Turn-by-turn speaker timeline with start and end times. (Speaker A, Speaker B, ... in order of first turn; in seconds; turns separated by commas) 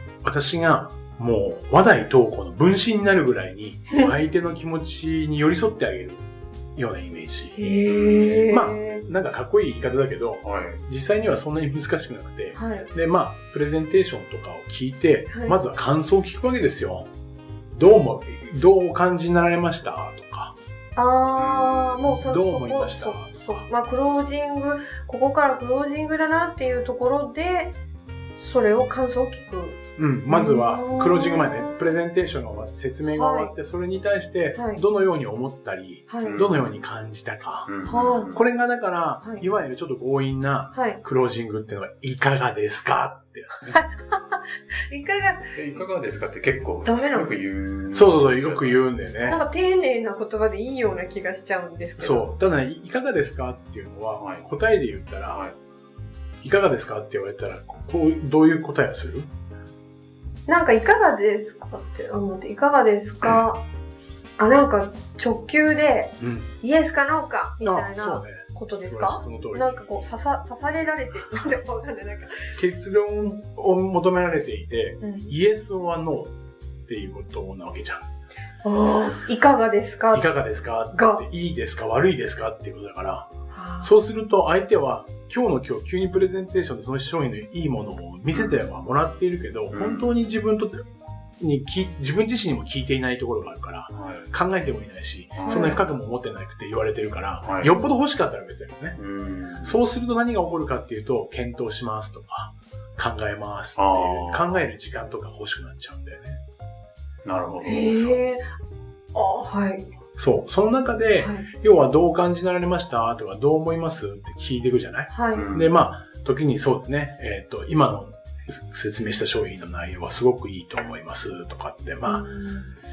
Speaker A: 0.2-7.7, Speaker B: 7.6-9.1, Speaker C: 7.9-8.4, Speaker A: 8.4-17.1, Speaker C: 10.4-10.8, Speaker B: 12.6-12.9, Speaker B: 15.3-15.6, Speaker A: 17.7-20.5, Speaker B: 20.9-27.8, Speaker C: 21.4-21.7, Speaker A: 22.0-23.7, Speaker B: 28.4-31.9, Speaker A: 30.0-43.8, Speaker B: 33.0-33.5, Speaker B: 34.5-34.8, Speaker B: 36.1-36.4, Speaker C: 36.2-36.7, Speaker C: 37.7-38.4, Speaker B: 37.8-38.3, Speaker B: 40.7-41.0, Speaker B: 43.7-45.5, Speaker C: 45.5-48.9, Speaker B: 46.8-47.3, Speaker A: 47.9-49.4, Speaker B: 49.2-52.3, Speaker A: 52.0-55.4, Speaker C: 54.2-54.4, Speaker C: 55.3-55.5, Speaker A: 56.4-59.3, Speaker B: 60.5-63.6, Speaker B: 64.4-72.6, Speaker A: 66.2-66.5, Speaker A: 67.6-70.0, Speaker A: 72.5-76.3, Speaker B: 75.0-75.3, Speaker A: 76.8-78.0, Speaker B: 78.6-80.3, Speaker A: 80.1-83.3, Speaker B: 80.9-81.2, Speaker B: 83.5-83.9, Speaker A: 83.8-90.8, Speaker C: 88.3-88.7, Speaker C: 89.7-90.1, Speaker A: 91.4-99.0, Speaker C: 93.9-94.3, Speaker C: 95.3-95.8, Speaker B: 95.5-95.8, Speaker C: 97.4-97.7, Speaker C: 99.0-99.8, Speaker A: 99.6-106.4, Speaker C: 103.8-104.5, Speaker C: 107.2-108.1, Speaker B: 107.6-108.5, Speaker B: 109.1-109.9, Speaker A: 110.2-122.3, Speaker B: 111.2-111.5, Speaker B: 115.1-115.5, Speaker C: 115.3-115.7, Speaker B: 122.0-122.7